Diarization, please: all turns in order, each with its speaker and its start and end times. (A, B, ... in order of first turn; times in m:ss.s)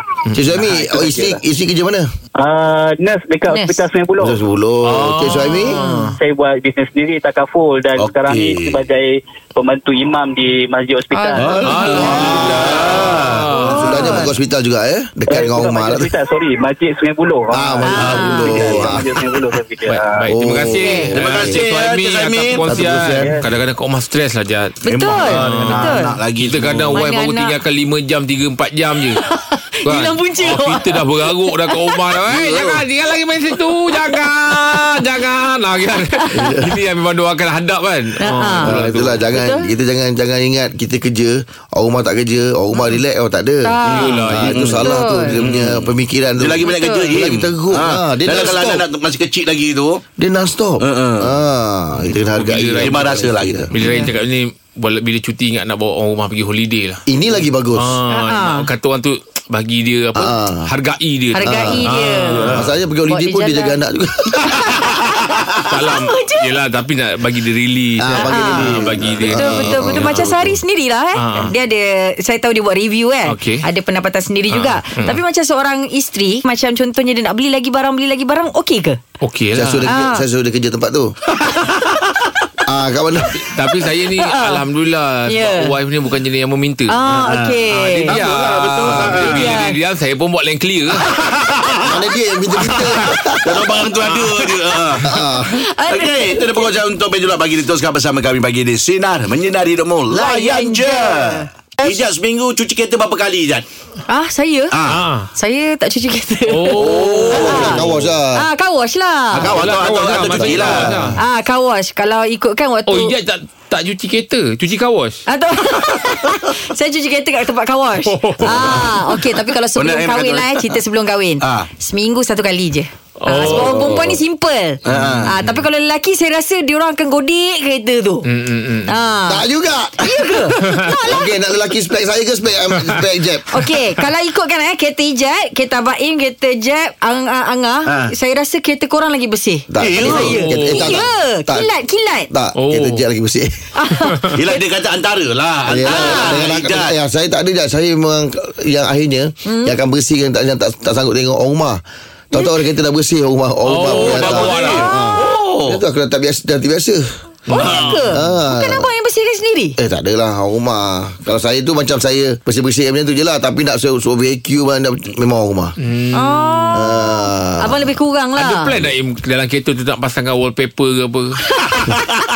0:00.2-0:00.7 A
0:00.3-0:02.1 B
0:00.8-0:01.4 C
0:02.4-0:04.3 C
0:03.5-0:03.8 D
0:04.2-0:05.8 B
0:04.8-0:06.2 A
0:05.7-0:06.1 D
0:06.2-0:11.8 C
0:08.0-0:08.9 E
0:11.1-0:12.5 D
0:11.4-0:13.8 E
0:11.6-0:14.2 A
0:11.9-0:16.1 B
0:13.5-0:14.3 D
0:15.3-0:17.7 C
0:17.5-0:19.4 B
0:17.8-0:18.9 D
0:18.0-0:18.4 E
0:18.4-0:20.1 C
0:19.8-0:29.2 A
0:20.3-0:21.6 B
0:20.8-0:21.1 D
0:21.1-0:22.8 E
0:22.6-0:23.3 B
0:24.8-0:26.2 D
0:24.8-0:27.0 E
0:26.9-0:27.6 D
0:29.1-0:32.2 D
0:29.8-0:39.2 A
0:32.2-0:32.8 B
0:33.9-0:34.8 D
0:36.0-0:36.6 D
0:36.3-0:36.8 B
0:38.2-0:39.7 D
0:38.6-0:48.8 B
0:43.6-0:45.4 D
0:43.8-0:45.0 A
0:44.4-0:50.0 E
0:46.7-0:47.0 D
0:50.2-0:53.7 B
0:50.8-0:51.4 E
0:52.3-0:53.0 A
0:52.7-0:53.7 E
0:53.7-0:57.0 A
0:53.8-0:54.1 D
0:57.1-0:58.0 B
0:57.7-1:02.7 A
0:58.1-0:58.7 D
1:00.2-1:00.7 B
1:01.3-1:02.4 D
1:01.4-1:01.9 B
1:02.4-1:02.7 E
1:02.4-1:04.6 B
1:03.1-1:03.8 D
1:04.5-1:05.0 D
1:05.7-1:10.4 A
1:05.8-1:06.6 D
1:08.0-1:10.6 B
1:08.1-1:19.0 D
1:11.2-1:11.5 A
1:13.2-1:13.6 A
1:14.5-1:15.2 A
1:19.2-1:19.9 A
1:19.5-1:21.1 B
1:19.8-1:20.3 D
1:21.5-1:22.0 E
1:22.6-1:23.4 B
1:23.3-1:26.9 A
1:23.8-1:24.6 D
1:25.2-1:25.8 D
1:26.9-1:28.2 D
1:27.1-1:29.6 E
1:27.7-1:31.0 A
1:29.0-1:29.8 D
1:30.9-1:32.0 E
1:31.8-1:34.4 B
1:32.7-1:35.2 E
1:35.0-1:35.6 B
1:35.2-1:36.8 D
1:35.8-1:43.7 E
1:40.1-1:42.0 D
1:44.1-1:44.8 D
1:44.7-1:45.0 E
1:44.8-1:45.3 A
1:45.3-1:49.6 D
1:46.5-1:47.6 A
1:46.8-1:48.4 B
1:46.9-1:48.0 E
1:49.3-1:50.9 E
1:49.4-1:51.2 A
1:50.1-1:51.2 B
1:51.2-1:53.2 D
1:52.9-1:55.2 A
1:55.3-2:08.3 D
1:55.8-1:56.0 E
1:58.0-1:58.9 A
1:58.4-1:58.9 E
1:59.7-2:00.8 E
2:01.4-2:01.7 E
2:03.2-2:04.1 A
2:04.8-2:05.4 E
2:04.9-2:05.6 A
2:08.2-2:09.0 A
2:08.9-2:09.5 D
2:09.3-2:10.4 B
2:10.0-2:11.3 D
2:10.6-2:10.9 A
2:11.1-2:13.4 B
2:13.5-2:22.3 D
2:17.8-2:18.1 E
2:19.7-2:21.7 B
2:19.8-2:20.4 E
2:20.0-2:21.0 A
2:22.3-2:23.5 B
2:22.6-2:23.0 A
2:23.7-2:24.6 D
2:24.3-2:26.9 E
2:25.6-2:37.0 B
2:25.9-2:26.4 D
2:29.4-2:29.8 D
2:33.6-2:34.9 A
2:34.2-2:35.8 E
2:37.5-2:38.1 A
2:37.5-2:39.8 D
2:37.6-2:37.9 E
2:38.0-2:38.9 B
2:39.8-2:45.7 B
2:45.8-2:46.8 A
2:46.1-2:48.8 D
2:46.7-2:47.9 B
2:48.4-2:51.3 A
2:51.6-2:52.2 E